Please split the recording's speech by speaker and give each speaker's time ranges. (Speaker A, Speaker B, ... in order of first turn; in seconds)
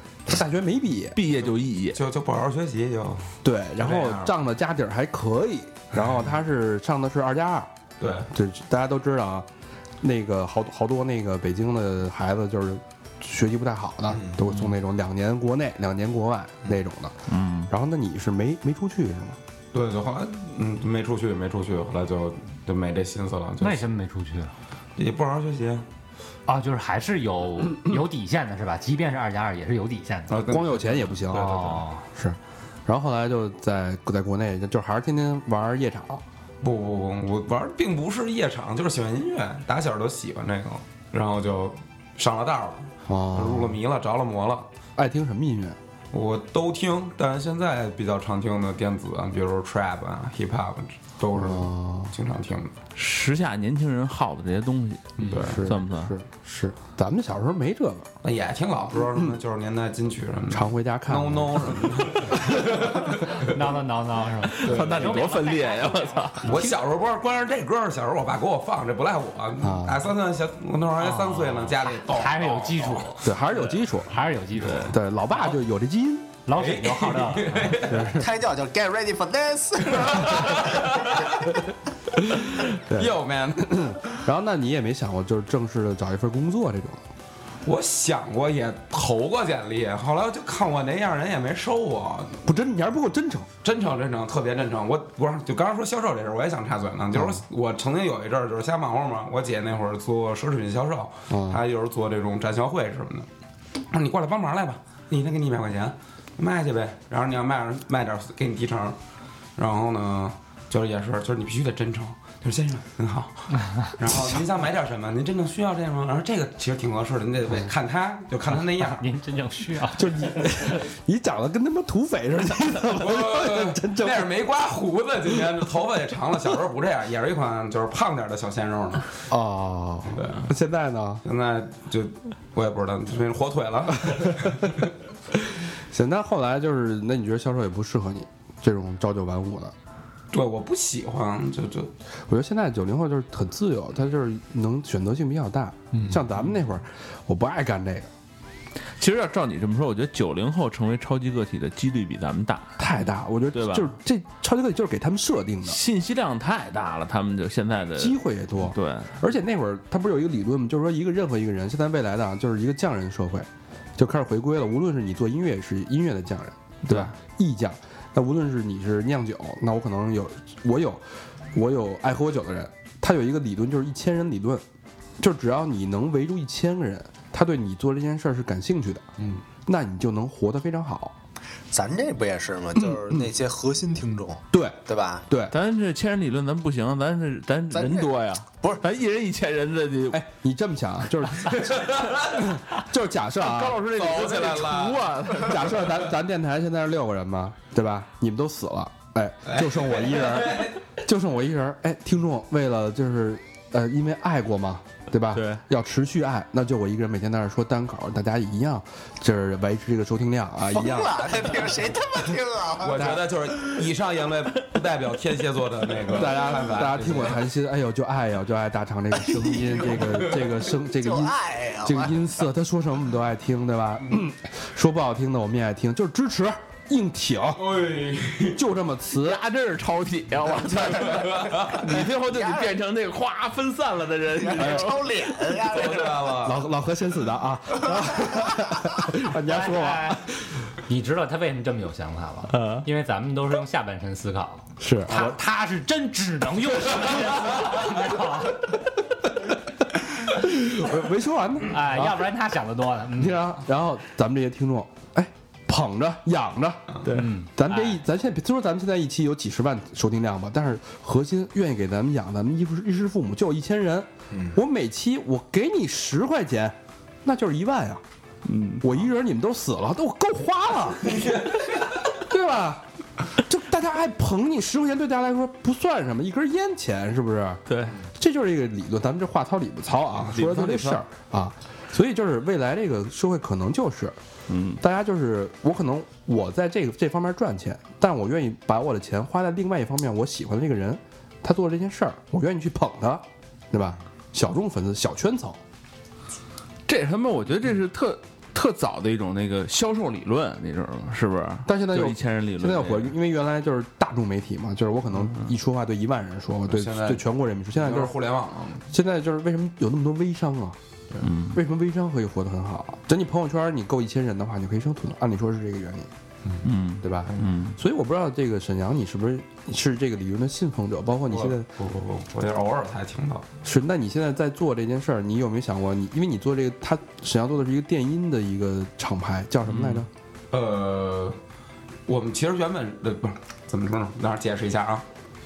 Speaker A: 0.2-1.2, 3.4-7.7, 8.3-9.5, 10.0-19.4, 30.5-36.2, 43.1-43.8, 45.0-45.8, 51.3-52.1, 55.3-58.1, 60.5-62.3, 69.6-70.0, 73.2-74.1, 74.9-76.4, 77.8-78.3, 82.9-87.1, 92.4-93.5, 97.2-97.4, 101.3-101.6, 120.0-124.3, 129.3-131.2, 134.1-134.6, 135.9-139.7, 142.3-148.1, 152.8-155.8, 158.0-174.6, 175.2-179.1, 179.7-181.2, 182.8-183.3, 184.5-185.5, 190.1-193.8, 195.4-211.4, 216.1-227.8, 228.5-229.4, 236.4-240.3, 244.8-245.4, 250.3-252.2, 253.2-268.0, 268.8-271.4, 272.1-284.2, 284.8-295.6, 301.7-308.2, 308.9-310.8, 311.5-316.1, 317.0-321.7, 323.6-330.1
Speaker B: 1.1-2.0, 17.3-17.7, 53.0-56.1, 64.5-66.6, 74.7-74.9, 149.0-152.9, 153.5-153.9, 155.7-159.1, 166.9-167.1, 185.5-190.2, 193.4-196.0, 205.3-205.6, 229.1-235.6, 242.5-242.8, 268.4-268.9, 277.7-278.0, 280.3-281.0, 284.5-284.8, 296.9-303.1, 311.2-311.6, 316.6-317.8
Speaker C: 1.9-4.3, 8.0-8.3, 19.7-23.9, 25.0-25.9, 30.3-31.8, 36.6-44.7, 46.1-52.8, 55.2-55.6, 58.2-63.6, 64.6-65.2, 66.4-73.2, 76.5-78.1, 80.7-81.1, 82.6-84.0, 87.6-92.4, 93.6-103.3, 103.9-109.0, 109.6-119.1, 123.0-129.2, 130.2-130.5, 131.2-134.9, 140.3-141.9, 191.7-192.3, 193.9-195.1, 199.5-200.8, 212.8-217.4, 227.6-228.6, 231.0-231.8, 235.7-236.6, 271.1-271.7, 306.7-307.2, 307.8-308.8, 321.3-323.5, 330.5-331.4, 332.1-335.1
Speaker D: 23.6-24.5, 26.5-30.5, 31.3-32.0, 63.1-66.7, 71.0-73.3, 74.1-75.5, 76.5-77.8, 119.0-120.3, 239.5-240.2, 240.9-248.8, 251.7-253.6, 257.1-258.0
Speaker E: 78.1-81.6, 181.7-185.3, 187.7-188.8, 210.7-213.2, 219.2-222.5, 230.7-232.7, 234.3-236.5, 264.3-264.6